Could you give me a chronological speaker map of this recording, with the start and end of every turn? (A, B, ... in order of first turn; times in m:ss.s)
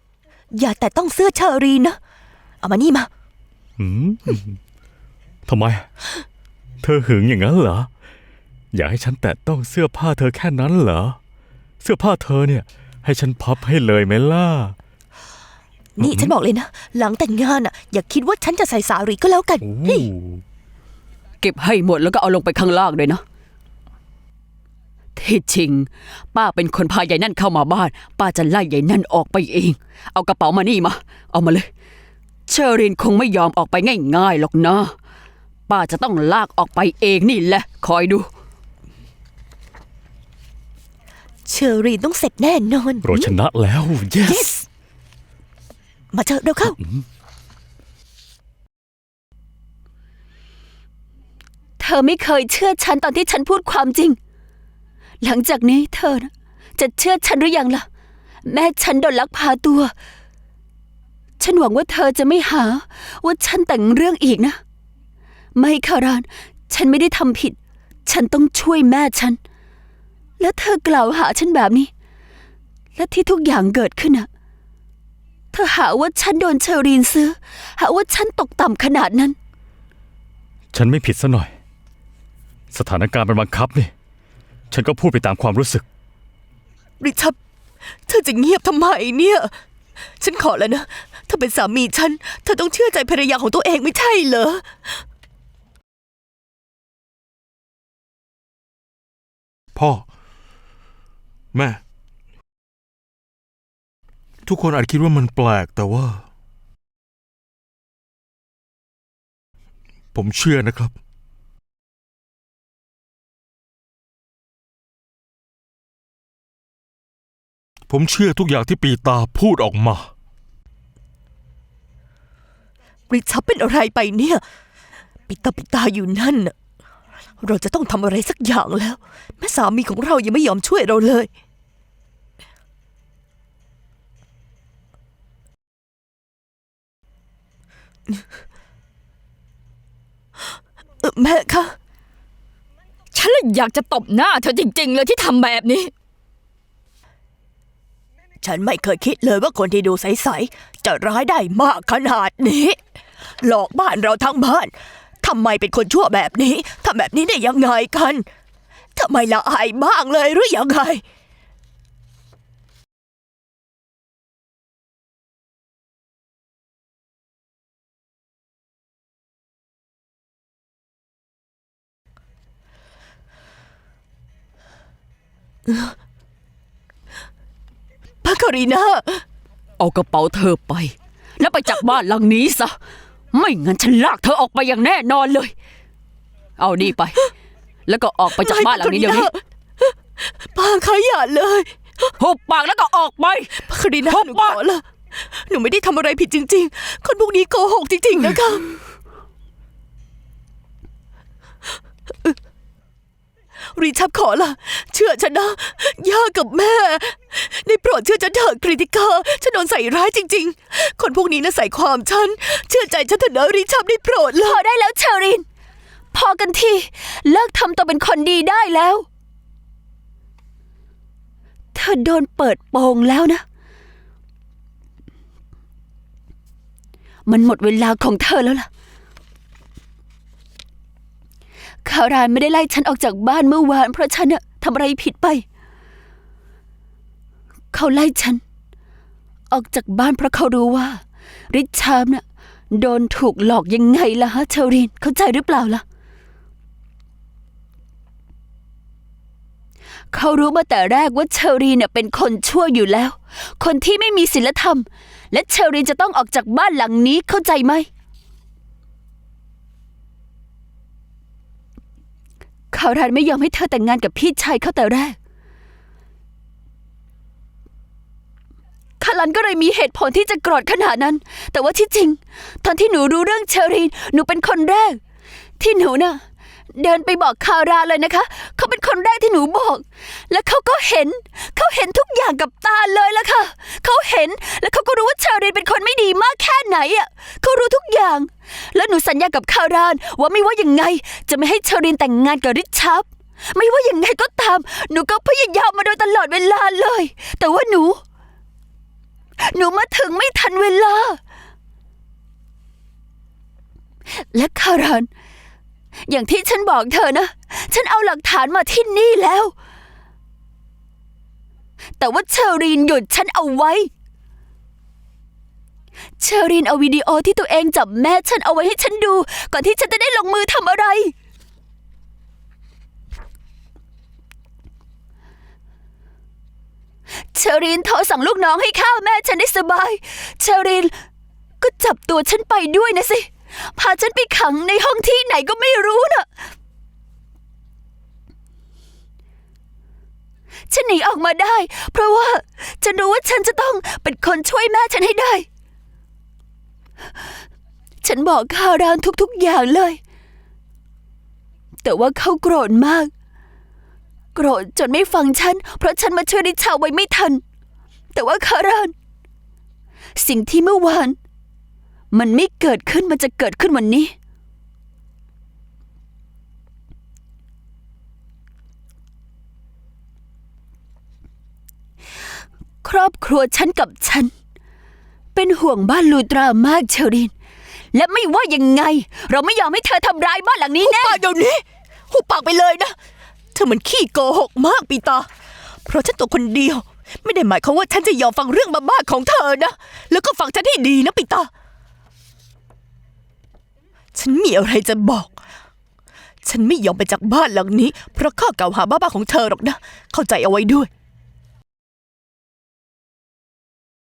0:00.5-0:02.0 A
0:02.6-0:03.1 A
0:03.8-0:04.6 B
0:05.5-0:05.8 B
0:06.8-0:07.9 B
0:08.7-0:11.2 B
0:11.8-0:14.7 B
0:16.0-0:20.1 A
0:16.0-0:16.3 B
0:19.6-0:20.4 B
0:21.4-0:23.2 C
0:25.2-0:31.7 C
0:32.5-0:34.9 C
0:35.7-0:38.3 C
0:41.4-0:43.3 A
0:43.0-0:44.5 B
0:44.2-0:44.6 A
0:46.1-0:46.8 A
0:46.6-0:47.0 B
0:51.8-0:54.2 C
0:55.2-0:57.8 C
0:58.4-0:59.9 C
1:01.4-1:04.6 C
1:05.5-1:09.4 C
1:10.4-1:11.9 C
1:13.0-1:14.3 C
1:15.5-1:19.4 C
1:20.7-1:21.5 B
1:22.7-1:23.9 B
1:24.7-1:25.8 B
1:27.0-1:27.4 A
1:28.1-1:29.5 A
1:30.2-1:34.7 A
1:39.7-1:40.0 D
1:41.5-1:41.8 D
1:44.4-1:46.2 D
1:50.1-1:50.9 D
1:57.9-2:00.1 D
2:03.1-2:04.4 A
2:05.3-2:06.5 A
2:07.4-2:11.3 A
2:21.0-2:21.8 A
2:23.1-2:25.9 E
2:28.4-2:32.8 A
2:33.4-2:38.2 A
2:39.0-2:41.0 A
2:55.7-2:55.9 A
2:58.2-2:59.2 A
2:59.8-3:02.7 C
3:03.3-3:05.5 C
3:06.6-3:07.2 C
3:07.9-3:09.3 C
3:08.4-3:09.9 A
3:10.5-3:12.1 A
3:12.2-3:14.6 C
3:13.6-3:18.6 A
3:23.7-3:34.6 A
3:34.4-3:35.4 C
3:36.1-3:39.0 C
3:41.7-3:43.4 C
3:47.3-3:48.7 C
3:51.8-3:55.4 C
3:57.7-3:58.4 C
3:59.5-4:05.8 C
4:10.1-4:17.9 C
4:22.7-4:25.2 C
4:29.0-4:35.0 C
4:35.6-4:36.2 C
4:36.7-4:58.0 C
4:59.4-5:01.2 C
5:04.2-5:05.1 C
5:06.1-5:09.5 C
5:12.0-5:13.9 C
5:16.2-5:21.1 C
5:27.3-5:30.9 C
5:31.6-5:36.2 C
5:40.7-5:45.4 C
5:48.0-5:50.0 C
5:51.8-5:53.1 C
5:54.3-5:57.4 C
5:58.1-5:58.9 C
6:00.2-6:01.2 C
6:02.1-6:04.1 C
6:12.8-6:14.3 C
6:15.3-6:17.3 C
6:17.9-6:21.2 C
6:20.8-6:22.9 A
6:23.5-6:25.3 A
6:25.8-6:31.5 A
6:34.1-6:35.3 A
6:36.4-6:40.9 A